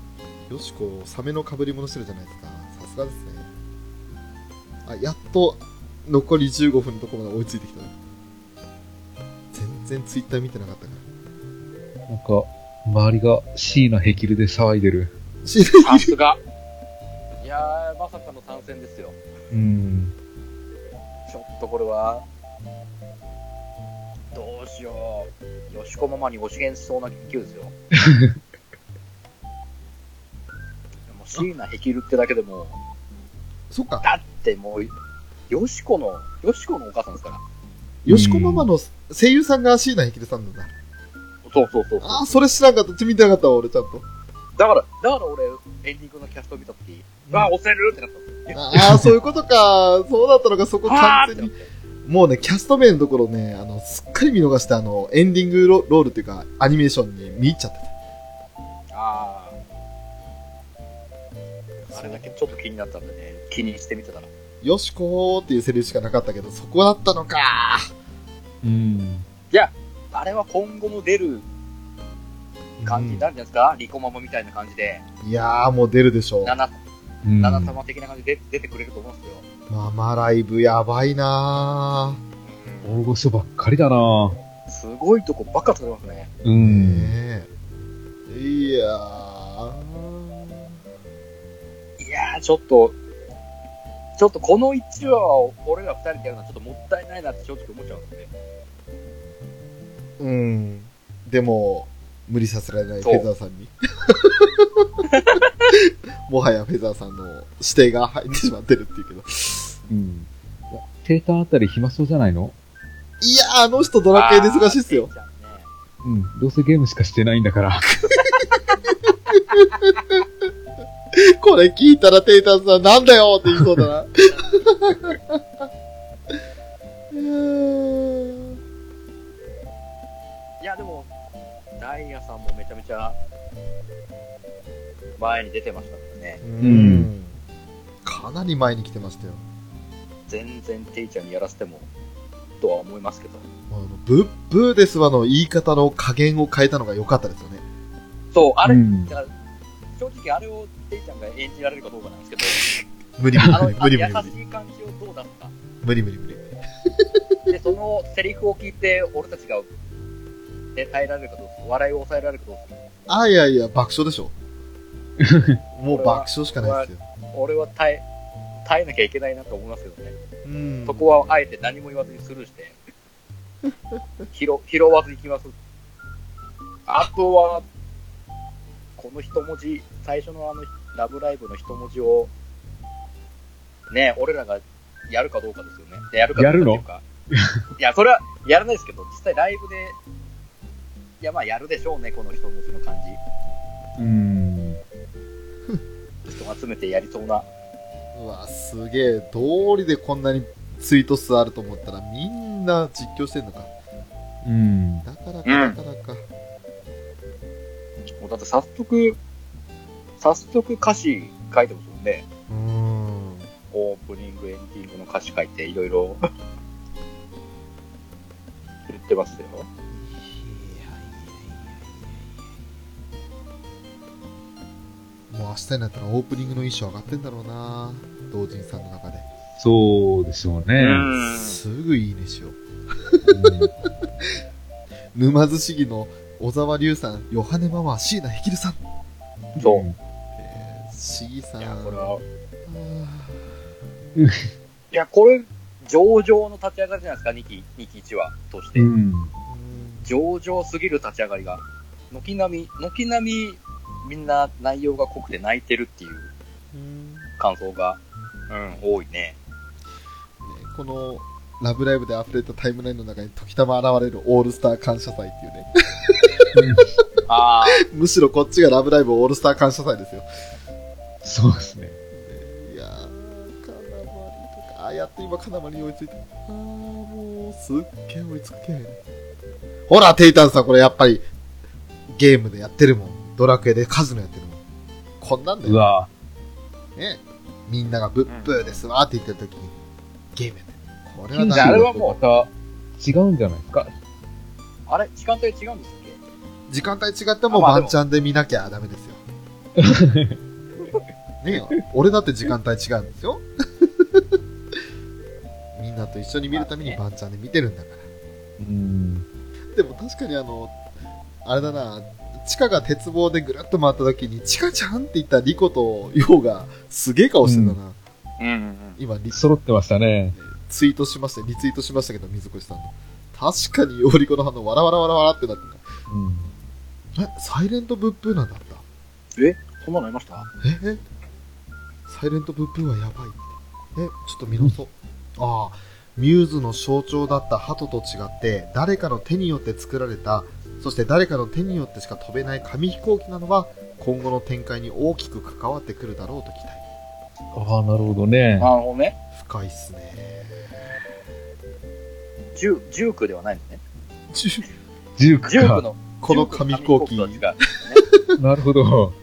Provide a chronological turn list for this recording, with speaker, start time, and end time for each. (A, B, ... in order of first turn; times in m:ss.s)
0:00.4-0:03.5 A
0:04.8-0:07.9 A
0:09.5-0:11.0 A
0:12.1-0:15.1 B
0:15.4-0:16.1 A
0:15.8-0:16.4 C
0:17.4-0:19.2 C
0:19.5-0:20.1 B
0:21.3-0:22.2 C
0:24.3-0:27.7 C
0:28.0-0:28.3 B
0:31.1-0:32.8 C
0:33.7-0:34.0 A
0:34.0-0:34.9 C
0:35.5-0:37.4 C
0:38.0-0:40.7 A
0:38.1-0:38.7 B
0:41.4-0:42.4 C
0:42.0-0:44.0 A
0:44.6-0:48.8 C
0:47.2-0:47.5 A
0:48.5-0:57.9 A
0:50.8-0:51.6 C
0:58.9-0:59.6 C
1:01.8-1:02.5 A
1:01.9-1:04.3 C
1:04.6-1:07.9 A
1:08.6-1:09.2 B
1:09.5-1:11.4 C
1:12.8-1:13.3 A
1:12.8-1:15.0 C
1:15.2-1:16.6 A
1:16.4-1:16.8 C
1:17.2-1:17.8 B
1:17.4-1:19.4 C
1:19.7-1:22.2 A
1:22.4-1:23.0 C
1:22.8-1:24.4 B
1:24.7-1:26.3 C
1:26.4-1:27.1 B
1:26.6-1:27.5 A
1:28.3-1:30.8 A
1:32.0-1:33.0 C
1:34.2-1:38.3 C
1:40.2-1:45.0 A
1:43.0-1:43.3 C
1:45.0-1:45.6 C
1:45.7-1:49.8 A
1:49.9-1:52.5 B
1:53.2-1:55.1 A
1:54.1-1:55.7 C
1:56.0-1:57.9 B
1:59.3-2:00.2 A
2:01.1-2:05.7 A
2:07.1-2:08.6 A
2:10.6-2:11.1 C
2:11.8-2:13.2 C
2:15.2-2:16.4 C
2:16.4-2:17.4 A
2:16.6-2:17.1 B
2:18.0-2:19.4 A
2:20.3-2:21.9 C
2:22.6-2:23.4 C
2:23.7-2:27.6 A
2:28.3-2:29.3 C
2:28.6-2:29.1 B
2:30.0-2:32.6 C
2:32.6-2:34.3 A
2:33.4-2:35.5 C
2:35.8-2:37.6 A
2:37.5-2:39.7 C
2:40.7-2:42.7 C
2:43.1-2:44.3 A
2:45.2-2:45.6 B
2:45.7-2:47.0 A
2:45.9-2:48.0 C
2:48.6-2:50.1 C
2:50.4-2:51.2 A
2:50.8-2:52.8 C
2:53.6-2:54.0 A
2:54.3-2:55.5 C
2:56.9-2:57.6 C
2:59.0-3:02.3 C
3:03.9-3:07.0 C
3:06.4-3:07.5 B
3:07.8-3:10.0 C
3:11.2-3:13.2 C
3:14.0-3:14.8 B
3:16.3-3:17.5 C
3:18.1-3:23.7 A
3:24.4-3:25.0 B
3:25.0-3:26.2 A
3:25.4-3:25.8 C
3:28.2-3:29.2 C
3:30.2-3:32.2 C
3:32.5-3:33.5 A
3:33.7-3:36.2 C
3:38.9-3:39.7 C
3:39.9-3:42.2 A
3:45.3-3:49.3 A
3:49.6-3:51.1 B
3:50.8-3:51.6 C
3:51.3-3:54.3 A
3:53.3-3:53.7 B
3:55.1-3:58.8 A
3:59.6-4:00.0 B
3:59.6-3:59.8 C
4:00.4-4:02.1 A
4:01.6-4:02.2 C
4:02.6-4:03.6 A
4:04.2-4:04.5 B
4:04.9-4:08.9 C
4:08.8-4:09.3 B
4:09.5-4:10.1 A
4:10.0-4:16.3 C
4:16.7-4:17.3 A
4:17.4-4:18.0 C
4:18.5-4:19.4 C
4:20.4-4:26.6 A
4:26.5-4:27.0 B
4:27.3-4:27.8 C
4:27.7-4:30.2 A
4:31.2-4:32.0 B
4:32.1-4:39.0 A
4:39.9-4:41.2 A
4:42.1-4:44.6 A
4:45.2-4:45.9 A
4:45.6-4:46.1 B
4:47.0-4:49.7 A
4:48.2-4:48.8 C
4:50.3-4:52.0 A
4:51.3-4:53.9 B
4:51.5-4:52.2 C
4:54.9-4:56.2 C
4:56.7-4:59.2 A
4:57.5-4:58.0 C
4:59.8-5:00.4 B
5:01.4-5:04.4 A
5:05.7-5:08.1 A
5:06.5-5:07.0 C
5:08.6-5:09.2 B
5:09.7-5:10.8 A
5:11.4-5:18.0 A
5:17.4-5:17.8 B
5:18.4-5:19.0 C
5:19.0-5:19.4 A
5:19.3-5:20.4 B
5:20.4-5:25.9 A
5:26.1-5:26.5 B
5:27.1-5:28.8 A
5:29.4-5:30.5 C
5:30.6-5:31.0 A
5:32.1-5:46.8 A
5:47.5-5:48.7 B
5:48.6-5:49.2 C
5:49.3-5:50.9 A
5:52.5-5:53.8 C
5:54.3-5:54.6 A
5:55.2-5:55.8 B
5:55.4-5:58.0 C
5:56.2-5:58.4 A
5:58.4-5:59.2 B